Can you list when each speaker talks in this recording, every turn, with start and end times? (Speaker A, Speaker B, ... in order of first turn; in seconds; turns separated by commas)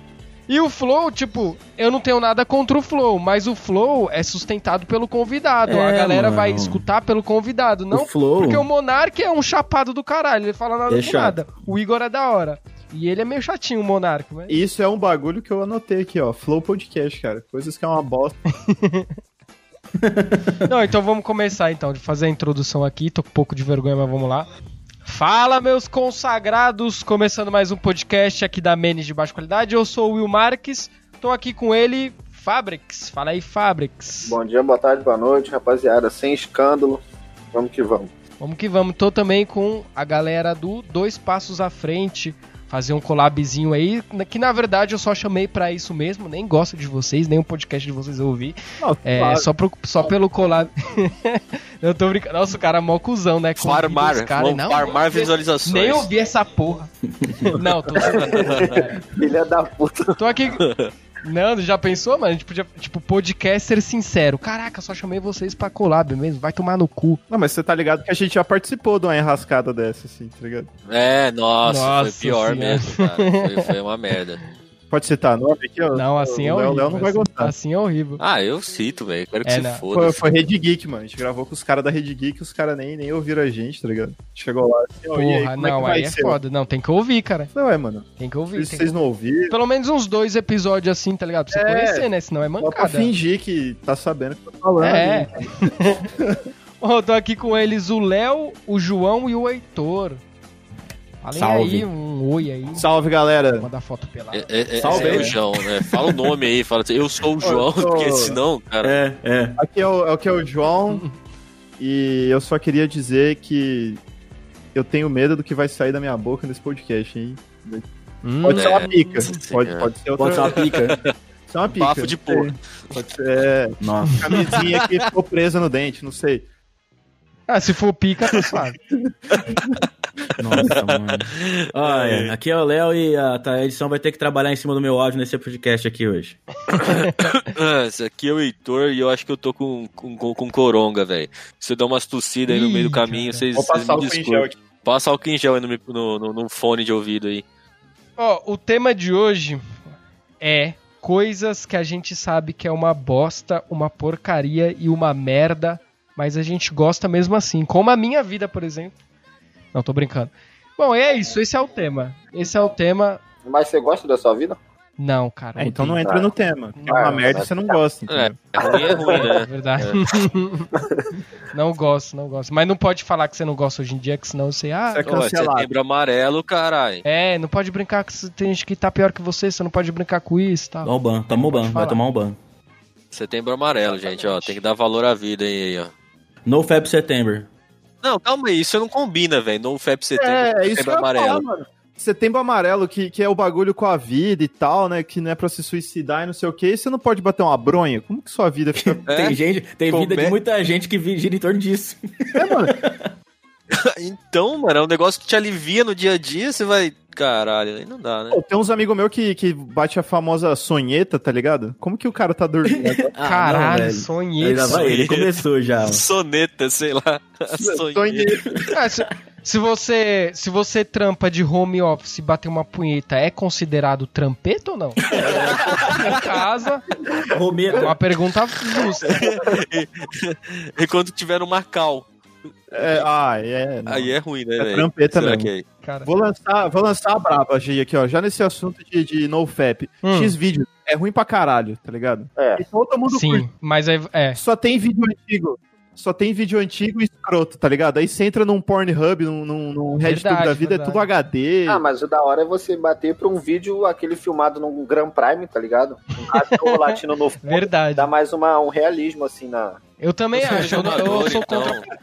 Speaker A: 0.5-14.6, Speaker B: 5.6-6.8, Speaker B: 7.9-8.7, Speaker B: 10.9-11.5, Speaker C: 14.5-18.4, Speaker A: 18.6-19.1, Speaker B: 20.0-20.7, Speaker A: 20.6-24.5, Speaker A: 25.0-34.4, Speaker D: 34.2-37.0, Speaker D: 37.5-38.1, Speaker A: 38.4-56.9, Speaker C: 48.8-49.5, Speaker E: 53.6-56.1, Speaker B: 57.2-57.5, Speaker A: 57.5-59.0, Speaker D: 58.1-60.1, Speaker E: 58.2-58.8, Speaker A: 60.2-60.6, Speaker E: 60.6-60.9, Speaker A: 61.2-67.2, Speaker C: 67.3-70.7, Speaker E: 70.9-74.4, Speaker A: 71.6-73.7, Speaker C: 74.9-77.5, Speaker A: 75.9-78.2, Speaker E: 78.2-80.2, Speaker A: 79.4-79.8, Speaker C: 79.9-86.4, Speaker A: 85.1-87.5, Speaker C: 87.5-89.5, Speaker A: 88.2-89.0, Speaker A: 89.5-93.1, Speaker C: 91.5-96.4, Speaker A: 94.8-96.0, Speaker A: 96.8-100.2, Speaker A: 101.2-102.8, Speaker B: 101.3-101.9, Speaker C: 102.8-103.7, Speaker A: 103.6-105.3, Speaker E: 104.3-108.9, Speaker B: 104.8-105.4, Speaker C: 107.4-108.4, Speaker B: 108.8-109.6, Speaker C: 109.6-111.0, Speaker C: 111.8-114.0, Speaker C: 114.7-117.8, Speaker A: 118.2-119.4, Speaker C: 118.4-120.9, Speaker E: 118.5-119.9, Speaker B: 120.2-121.0, Speaker C: 121.5-126.4, Speaker E: 121.8-122.5, Speaker B: 123.8-124.5, Speaker E: 124.5-125.0, Speaker A: 127.5-128.8, Speaker B: 130.4-136.4, Speaker E: 130.6-132.3, Speaker A: 136.7-137.2, Speaker E: 136.7-147.4, Speaker A: 142.5-143.4, Speaker C: 143.5-144.6, Speaker A: 148.2-149.8, Speaker A: 150.4-158.9, Speaker A: 159.7-163.2, Speaker D: 163.4-164.6, Speaker A: 165.0-166.0, Speaker C: 165.6-168.4, Speaker D: 166.0-166.3, Speaker A: 166.8-167.3, Speaker D: 166.9-167.8, Speaker E: 168.1-170.1, Speaker D: 168.6-169.3, Speaker A: 169.3-170.7, Speaker D: 170.7-171.1, Speaker A: 171.5-175.0, Speaker C: 174.9-175.8, Speaker E: 175.0-177.0, Speaker A: 177.0-182.0, Speaker B: 180.8-182.4, Speaker E: 183.1-185.9, Speaker B: 186.4-187.5, Speaker E: 188.0-191.4, Speaker C: 190.2-199.0, Speaker B: 198.8-203.1, Speaker E: 199.1-200.4, Speaker C: 202.3-202.7, Speaker E: 203.7-208.4, Speaker C: 208.3-213.1, Speaker B: 212.7-216.0, Speaker A: 213.2-214.8, Speaker E: 214.7-218.4, Speaker C: 217.5-218.5, Speaker B: 218.5-218.7, Speaker A: 218.7-225.0, Speaker B: 225.0-226.2, Speaker E: 225.1-225.8, Speaker A: 225.6-226.8, Speaker B: 227.3-227.9, Speaker A: 227.7-229.3, Speaker E: 229.1-232.1, Speaker E: 232.7-233.1, Speaker C: 232.7-235.5, Speaker E: 233.8-235.6, Speaker A: 235.8-236.1, Speaker C: 236.0-243.4, Speaker A: 240.0-240.3, Speaker D: 242.3-242.6, Speaker A: 243.1-244.4, Speaker C: 244.3-251.8, Speaker A: 250.0-251.1, Speaker D: 251.7-259.8, Speaker A: 256.3-258.1, Speaker A: 260.0-261.8, Speaker E: 260.3-261.9